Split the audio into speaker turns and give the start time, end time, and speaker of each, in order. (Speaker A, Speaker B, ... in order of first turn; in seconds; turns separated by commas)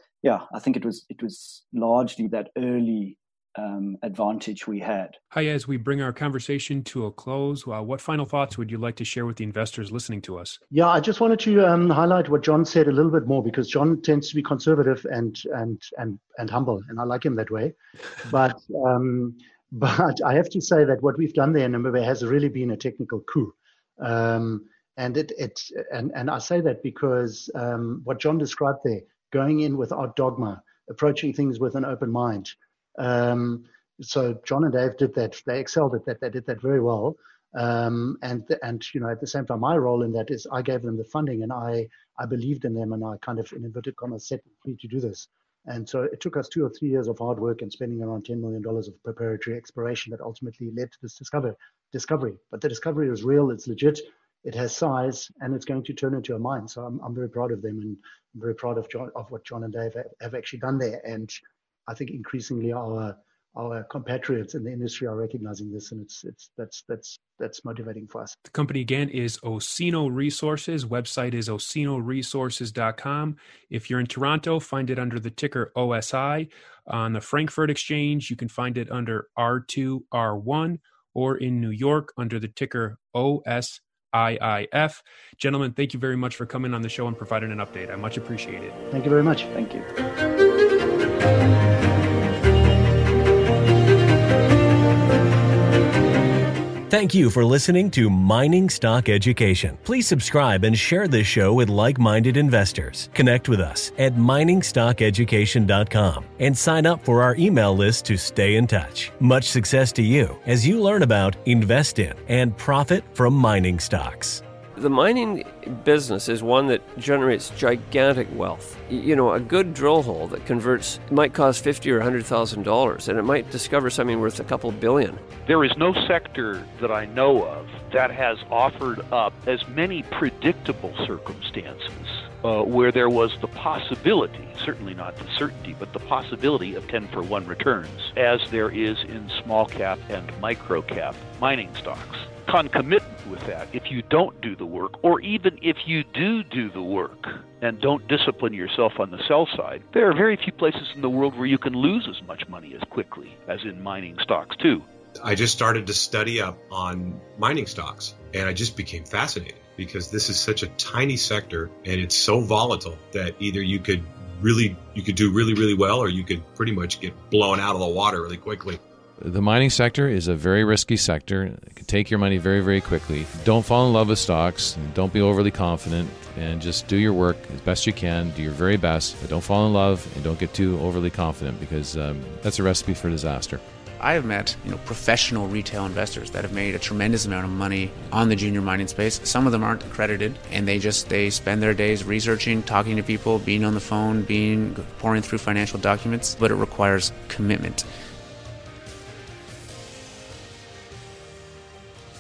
Speaker A: 0.2-5.2, Speaker B: 5.3-10.6, Speaker C: 10.7-68.3, Speaker B: 68.5-88.8, Speaker C: 88.9-89.5, Speaker A: 89.5-89.9, Speaker D: 96.9-114.4, Speaker E: 114.8-125.2, Speaker F: 125.4-154.9, Speaker G: 155.2-168.8, Speaker H: 169.2-183.6, Speaker I: 184.0-197.9